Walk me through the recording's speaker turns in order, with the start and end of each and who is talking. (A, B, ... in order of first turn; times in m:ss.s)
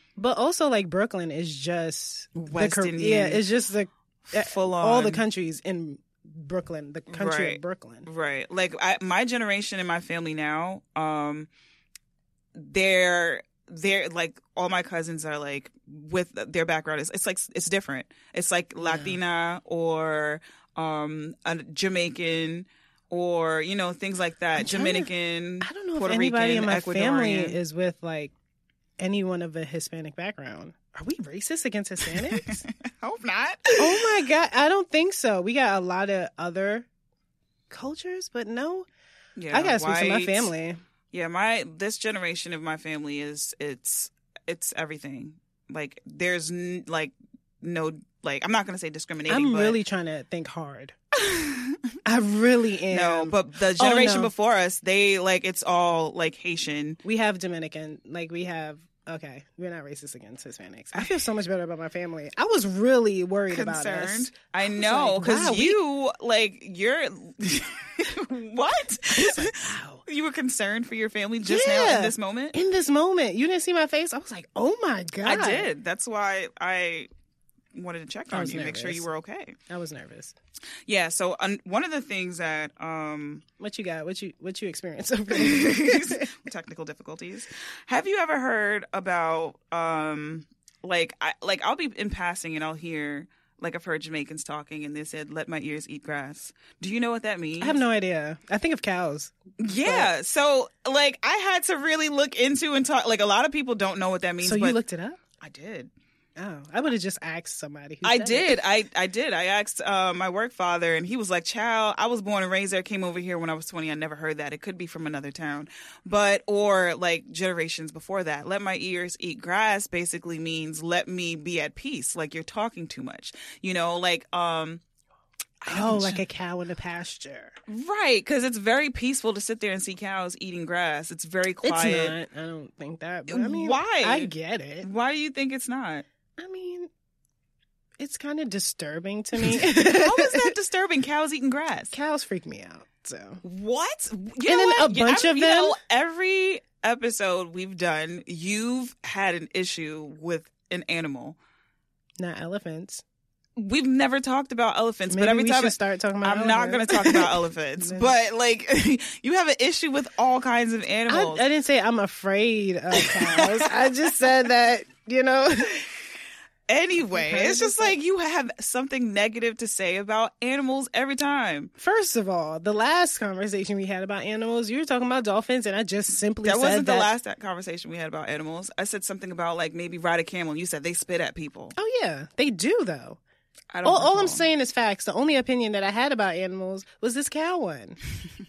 0:00.2-0:08.1 A
0:02.4-0:03.4 B
0:04.3-0:05.2 B
0:07.1-0:11.5 B
0:12.5-0:27.6 B
0:18.8-0:19.2 A
0:24.6-0:25.1 A
0:25.6-0:28.3 A
0:29.0-0:32.6 A
0:32.1-0:34.1 B
0:33.8-0:36.9 A
0:37.7-0:38.8 A
0:39.4-0:40.5 B
0:39.5-0:40.8 A
0:41.1-0:49.8 B
0:49.3-0:50.9 A
0:51.1-0:51.8 B
0:52.0-0:54.3 A
0:52.9-0:57.0 B
0:57.0-1:05.8 A
1:00.9-1:01.2 B
1:03.5-1:12.6 B
1:09.1-1:10.0 A
1:11.4-1:15.7 A
1:15.2-1:17.1 B
1:17.7-1:19.6 B
1:18.3-1:19.1 A
1:19.7-1:20.4 A
1:20.8-1:23.4 B
1:23.6-1:26.3 A
1:25.3-1:37.8 B
1:37.6-1:40.1 A
1:39.6-1:44.8 B
1:44.4-1:45.2 A
1:45.4-1:45.9 B
1:46.4-1:48.6 A
1:48.0-2:04.8 B
2:05.6-2:06.2 B
2:05.6-2:07.6 A
2:07.7-2:12.2 B
2:11.6-2:14.9 A
2:13.3-2:16.0 B
2:16.4-2:16.9 A
2:18.0-2:20.5 A
2:19.4-2:21.9 B
2:21.9-2:23.4 A
2:23.4-2:31.4 B
2:24.4-2:25.8 A
2:32.2-2:33.0 A
2:33.6-2:41.4 B
2:35.1-2:38.1 A
2:41.1-2:45.9 A
2:43.0-2:43.7 B
2:46.7-2:51.7 B
2:47.1-2:48.0 A
2:51.8-2:57.1 A
2:56.4-3:01.7 B
3:01.8-3:03.2 A
3:03.7-3:04.4 B
3:03.8-3:08.0 A